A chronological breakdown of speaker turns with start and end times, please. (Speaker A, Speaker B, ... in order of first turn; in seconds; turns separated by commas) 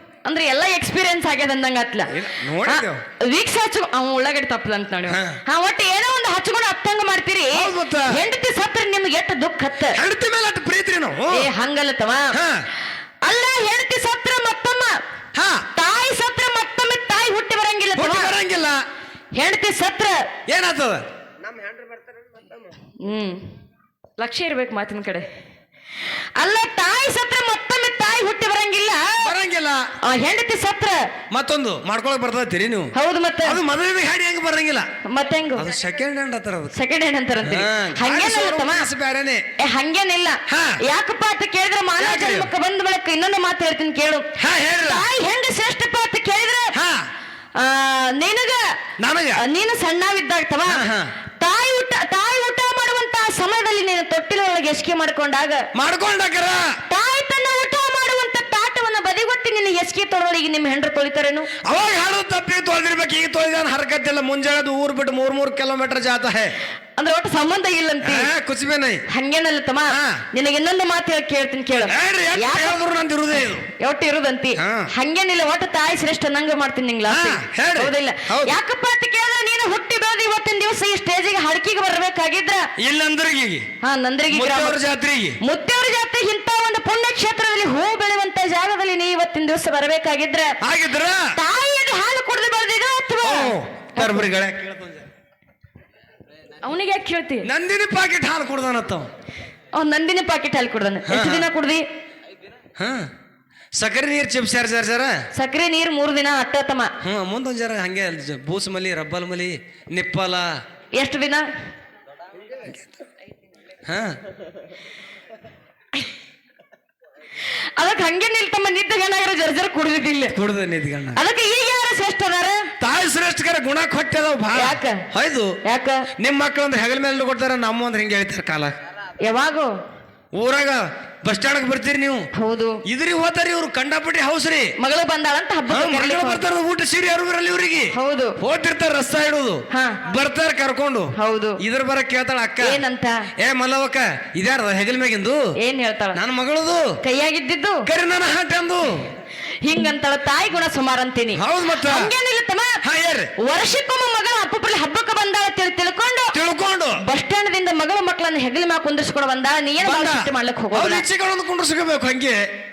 Speaker A: 0.2-2.1, Speaker B: 2.1-3.0, Speaker A: 2.6-10.0, Speaker B: 5.1-5.4, Speaker B: 7.5-8.2, Speaker B: 9.9-11.5, Speaker A: 11.3-12.4, Speaker B: 12.3-12.6, Speaker A: 13.3-15.0, Speaker B: 15.3-15.6, Speaker A: 15.7-18.4, Speaker B: 17.9-18.8, Speaker A: 19.4-20.2, Speaker B: 20.5-21.0, Speaker A: 23.0-23.5, Speaker A: 24.2-25.3, Speaker A: 26.4-29.2, Speaker B: 29.2-29.9, Speaker A: 30.0-31.0, Speaker B: 31.3-32.9, Speaker A: 32.9-33.6, Speaker B: 33.4-34.9, Speaker A: 35.1-35.7, Speaker B: 35.5-36.7, Speaker A: 36.7-38.9, Speaker B: 37.4-39.4, Speaker A: 39.6-46.7, Speaker B: 40.5-40.8, Speaker B: 42.0-42.5, Speaker B: 44.4-45.0, Speaker B: 46.7-47.0, Speaker A: 47.5-48.6, Speaker B: 49.0-49.4, Speaker A: 49.4-50.9, Speaker B: 50.6-51.1, Speaker A: 51.4-55.6, Speaker B: 55.7-56.8, Speaker A: 56.9-61.5, Speaker B: 61.6-66.5, Speaker A: 67.0-68.3, Speaker B: 68.0-69.0, Speaker A: 69.1-72.8, Speaker B: 69.9-70.2, Speaker B: 71.9-73.7, Speaker A: 73.7-82.7, Speaker B: 74.6-74.9, Speaker B: 77.1-78.5, Speaker B: 82.8-83.7, Speaker A: 83.8-84.8, Speaker B: 84.3-85.4, Speaker A: 85.4-90.5, Speaker B: 90.6-91.3, Speaker A: 91.3-94.2, Speaker B: 93.2-95.1, Speaker A: 96.6-97.5, Speaker B: 97.4-99.1, Speaker A: 99.7-101.8, Speaker B: 101.1-101.5, Speaker B: 102.8-103.1, Speaker B: 103.8-105.2, Speaker A: 105.3-106.9, Speaker B: 107.0-110.5, Speaker A: 110.9-111.4, Speaker B: 113.8-114.2, Speaker A: 117.5-120.3, Speaker B: 120.3-121.2, Speaker A: 121.2-122.7, Speaker B: 122.8-125.5, Speaker A: 124.5-125.0, Speaker A: 125.6-126.0, Speaker B: 126.2-128.7, Speaker A: 129.2-129.8, Speaker B: 130.3-132.2, Speaker A: 132.3-132.8, Speaker B: 132.8-134.7, Speaker A: 134.8-136.4, Speaker B: 135.7-142.8, Speaker A: 137.9-138.4, Speaker A: 139.7-140.0, Speaker A: 141.2-141.6, Speaker A: 142.6-143.2, Speaker B: 143.4-145.4, Speaker A: 145.6-146.2, Speaker B: 146.1-146.9, Speaker A: 147.0-147.9, Speaker B: 147.8-149.1, Speaker A: 149.6-152.8, Speaker B: 151.3-152.1, Speaker B: 152.8-153.3, Speaker A: 153.4-156.3, Speaker B: 156.3-157.0, Speaker A: 157.0-161.0, Speaker B: 159.8-162.4